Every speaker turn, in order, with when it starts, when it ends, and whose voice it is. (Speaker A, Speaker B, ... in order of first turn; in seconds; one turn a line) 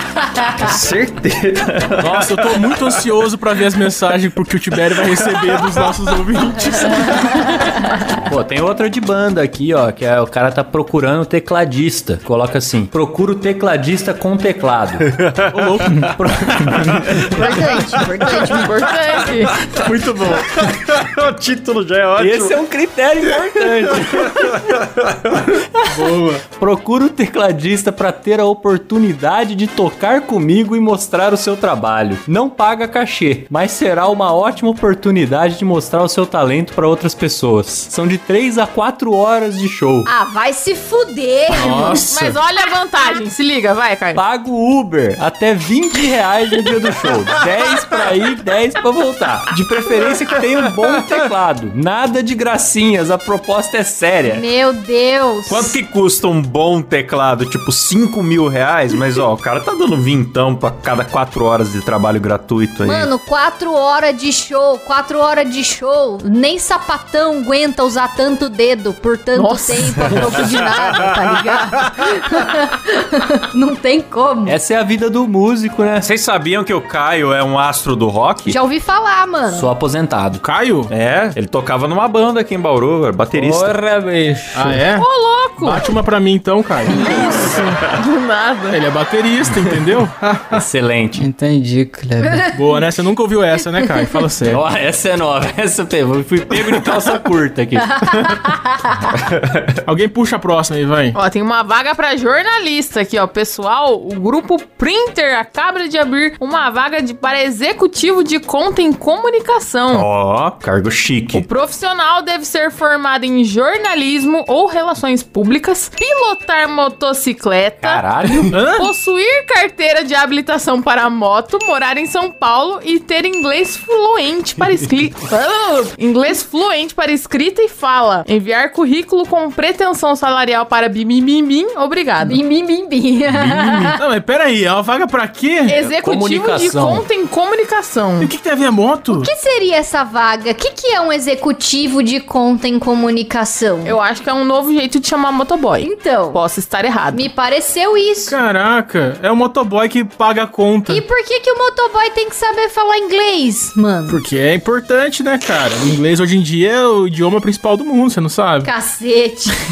Speaker A: 0.4-3.0
Speaker B: 2.0-7.4
Speaker A: 5.0-5.8
Speaker C: 8.2-15.1
Speaker A: 15.1-18.7
Speaker B: 15.5-16.1
Speaker C: 16.0-17.3
Speaker D: 17.3-18.8
Speaker E: 18.4-19.6
Speaker A: 19.4-22.6
Speaker B: 19.8-20.4
Speaker C: 22.2-24.5
Speaker A: 23.4-25.5
Speaker B: 25.9-26.4
Speaker C: 26.5-40.1
Speaker D: 40.1-42.0
Speaker B: 41.5-42.4
Speaker E: 42.1-44.2
Speaker C: 44.1-54.5
Speaker A: 49.7-51.2
Speaker D: 54.2-55.8
Speaker A: 55.5-63.1
Speaker D: 62.9-74.6
Speaker E: 69.3-70.4
Speaker A: 70.0-71.9
Speaker C: 74.5-76.1
Speaker A: 76.0-78.6
Speaker D: 78.5-79.7
Speaker C: 79.5-80.4
Speaker B: 80.4-80.9
Speaker A: 80.9-83.8
Speaker F: 83.3-84.8
Speaker B: 84.5-85.1
Speaker E: 85.0-85.9
Speaker B: 85.6-87.4
Speaker E: 86.9-88.8
Speaker B: 88.7-90.7
Speaker C: 90.5-91.3
Speaker F: 91.2-92.5
Speaker B: 92.5-94.6
Speaker C: 94.5-98.2
Speaker A: 99.2-99.7
Speaker B: 99.9-101.2
Speaker E: 101.1-110.1
Speaker A: 109.9-111.5
Speaker E: 111.3-132.4
Speaker C: 117.8-118.6
Speaker B: 118.5-118.9
Speaker D: 132.2-134.0
Speaker B: 133.7-135.8
Speaker E: 135.7-138.3
Speaker C: 135.8-137.1
Speaker B: 138.2-139.3
Speaker D: 139.1-144.0
Speaker E: 143.8-147.3
Speaker D: 145.8-146.4
Speaker D: 147.1-148.4
Speaker B: 148.3-151.0
Speaker D: 150.9-154.2
Speaker B: 154.1-158.7
Speaker D: 158.6-159.6